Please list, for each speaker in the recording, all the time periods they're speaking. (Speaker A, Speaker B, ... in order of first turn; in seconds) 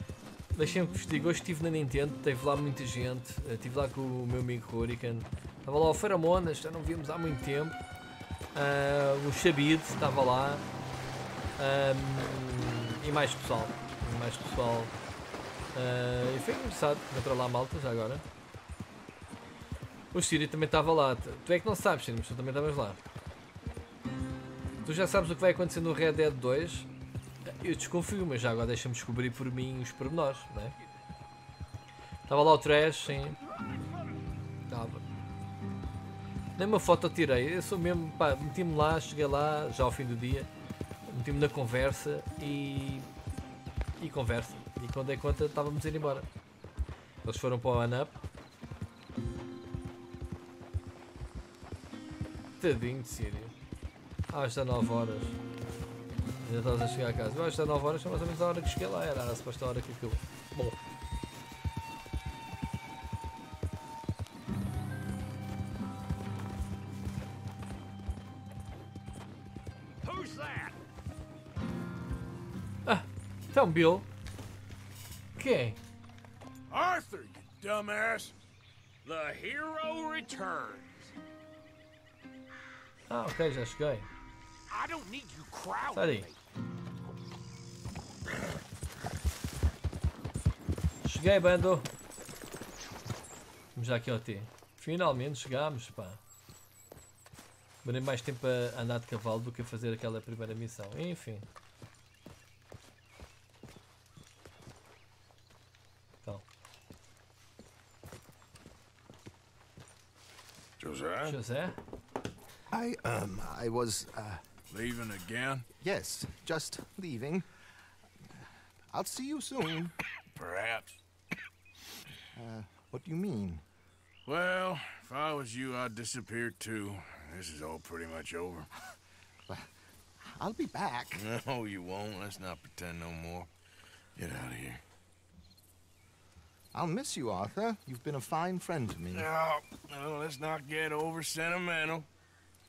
Speaker A: 0.5-7.8, 8.5-10.6, 11.6-14.9, 15.7-18.3, 20.1-23.0, 24.8-26.9, 27.5-30.8, 32.3-33.4, 34.7-35.0, 36.6-40.5, 41.1-43.1, 44.0-46.3, 47.2-48.1, 52.6-53.5, 54.3-55.4, 56.4-60.8, 72.9-74.1, 75.4-75.8, 83.1-84.1, 85.9-86.3, 91.0-91.9, 93.8-96.2, 97.8-101.5, 111.2-111.8
Speaker B: 70.0-70.8, 79.1-81.1, 84.7-86.3
Speaker C: 76.7-78.3, 79.1-80.6, 110.8-111.4, 114.7-115.7, 120.3-121.0, 124.3-128.7, 131.1-133.5, 134.2-134.8, 139.1-142.1
Speaker D: 112.7-114.4, 115.8-117.5, 118.9-120.0, 122.3-123.6, 130.4-131.2, 136.7-139.3